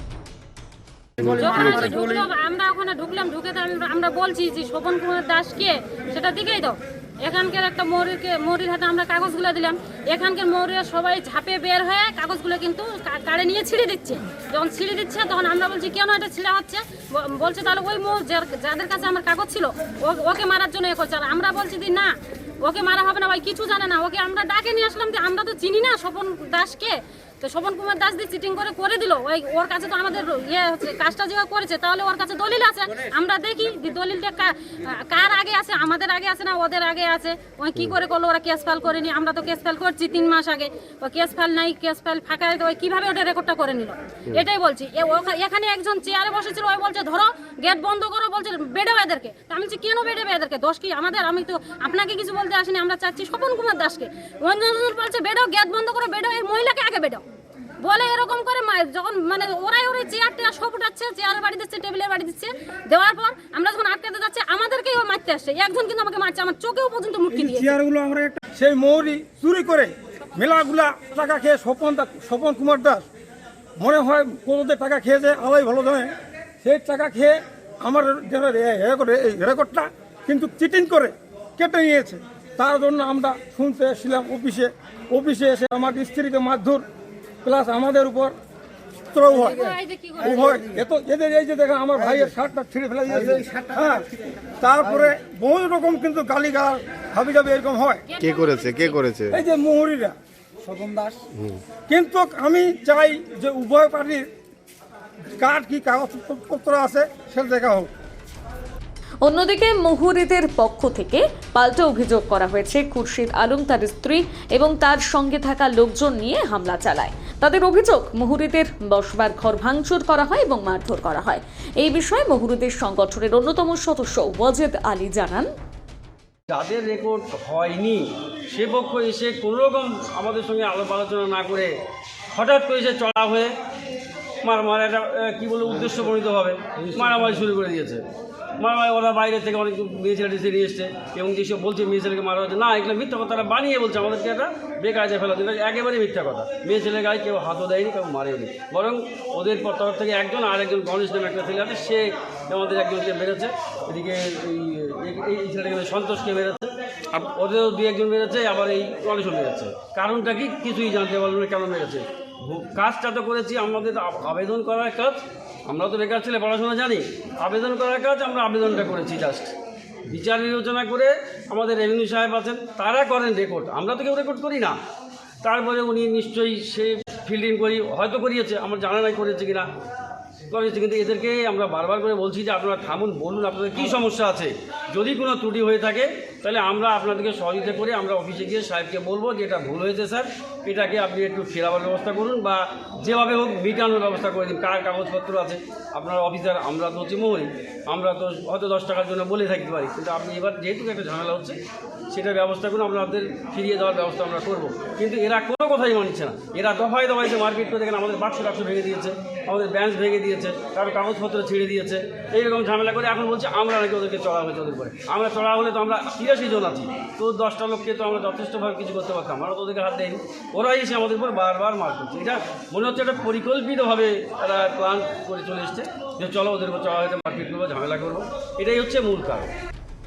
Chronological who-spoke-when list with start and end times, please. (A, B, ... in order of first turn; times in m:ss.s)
0:01.2-0:02.0 A
0:01.2-0:57.3 B
0:57.8-1:07.7 B
1:07.3-1:13.1 C
1:13.8-1:26.9 C
1:27.4-1:28.4 C
1:29.1-1:29.7 C
1:29.4-1:30.4 B
1:30.2-1:34.1 C
1:30.4-1:30.8 A
1:33.3-1:33.6 A
1:34.6-1:38.0 C
1:38.1-1:39.0 B
1:38.2-1:39.4 A
1:39.3-1:41.2 C
1:41.9-1:44.3 C
1:45.4-1:47.9 C
1:49.2-2:05.5 D
2:06.5-2:11.7 E
2:12.3-2:13.5 E
2:14.4-2:18.0 E
2:18.6-2:49.6 E
2:50.1-2:54.8 E
2:55.4-2:59.7 E
3:00.5-3:21.6 E
3:22.1-3:49.5 E